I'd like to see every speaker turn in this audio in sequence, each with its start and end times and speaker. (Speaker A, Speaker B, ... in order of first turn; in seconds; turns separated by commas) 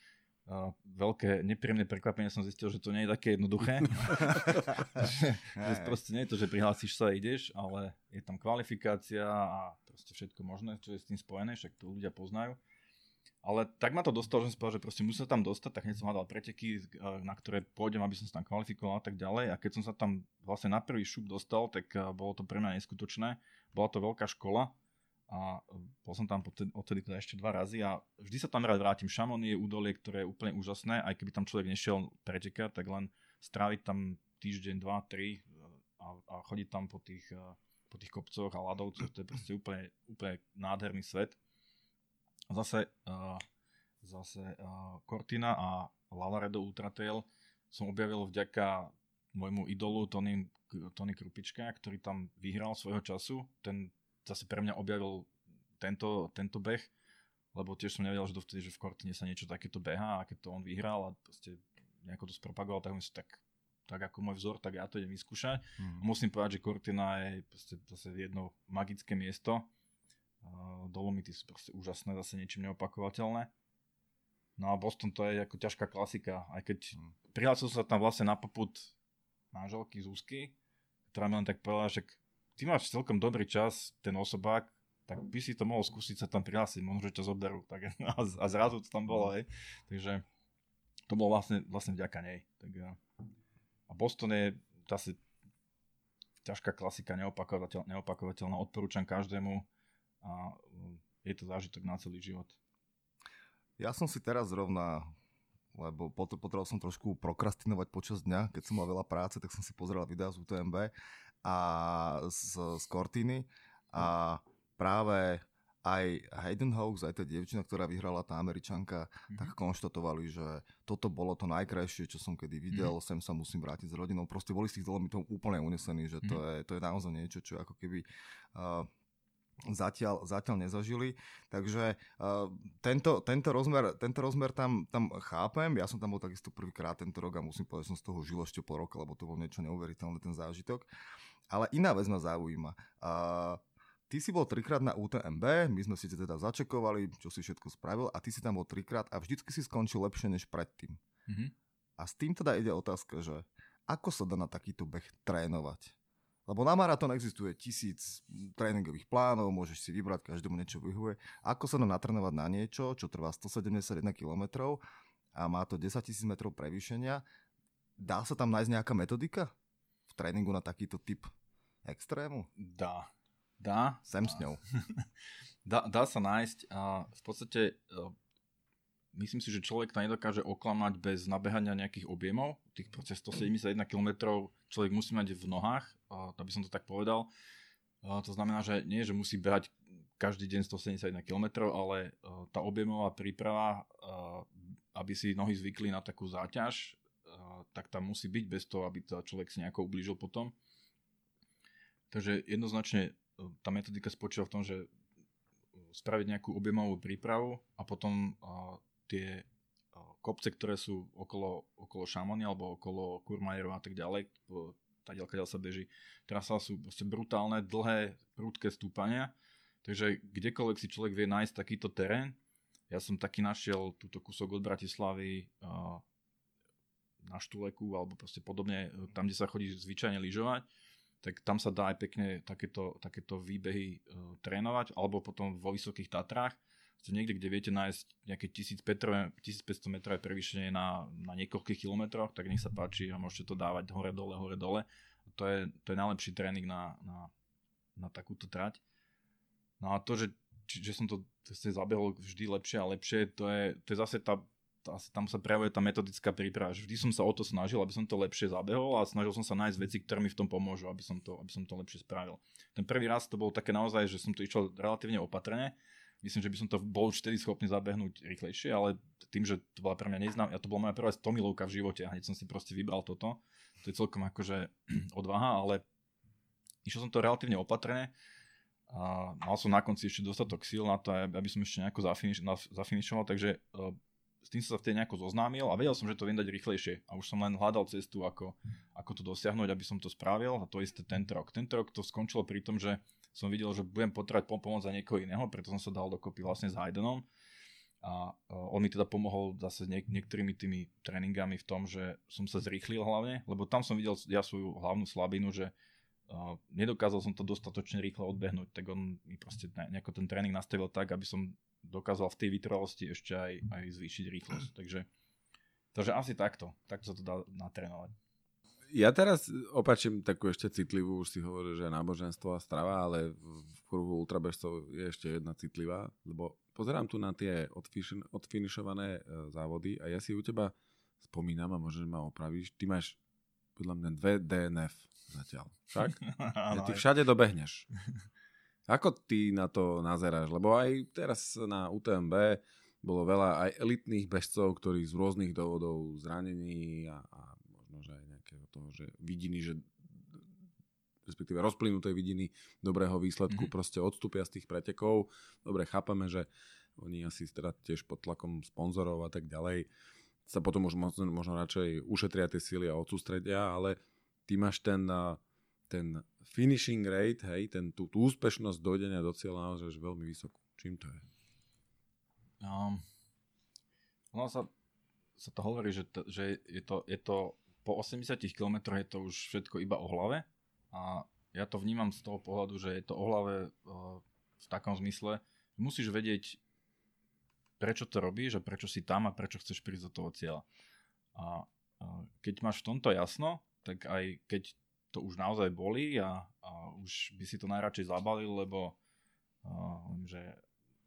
Speaker A: 0.5-12.6, Speaker B: 4.3-6.0, Speaker A: 13.4-24.7, Speaker A: 25.3-41.4, Speaker A: 42.5-43.4, Speaker A: 44.0-56.9, Speaker A: 57.5-69.7, Speaker B: 65.8-66.0, Speaker A: 70.4-73.5, Speaker A: 74.6-78.9, Speaker A: 79.5-80.5, Speaker A: 81.1-90.2, Speaker A: 91.1-93.0, Speaker A: 93.9-95.2, Speaker A: 96.4-99.7, Speaker A: 100.2-102.6, Speaker B: 103.8-105.1, Speaker B: 105.7-128.9, Speaker B: 129.6-140.9, Speaker B: 141.5-151.0, Speaker A: 151.3-151.5, Speaker B: 152.0-155.9, Speaker B: 156.5-164.8, Speaker B: 165.3-167.2, Speaker B: 168.0-169.5, Speaker B: 170.1-171.3, Speaker B: 171.8-172.5, Speaker A: 172.6-175.1, Speaker B: 174.1-174.6, Speaker A: 175.6-178.1, Speaker A: 179.1-187.3, Speaker A: 188.0-200.5, Speaker A: 202.1-204.9, Speaker A: 205.9-219.3, Speaker A: 219.8-222.4, Speaker A: 222.9-226.0, Speaker A: 227.2-230.6, Speaker A: 231.2-247.3, Speaker A: 248.0-248.8, Speaker A: 249.8-275.8, Speaker A: 276.8-278.1, Speaker A: 278.9-297.3, Speaker A: 298.0-305.7, Speaker A: 306.3-315.1, Speaker A: 315.9-318.1, Speaker C: 318.9-333.2, Speaker C: 333.8-337.9, Speaker A: 336.2-337.0, Speaker C: 338.9-349.9, Speaker C: 351.2-356.5, Speaker C: 357.0-359.9, Speaker C: 360.5-371.2, Speaker A: 372.6-373.0, Speaker A: 374.3-374.7, Speaker A: 375.4-386.6, Speaker A: 387.8-390.6, Speaker A: 391.3-398.9, Speaker A: 399.6-400.6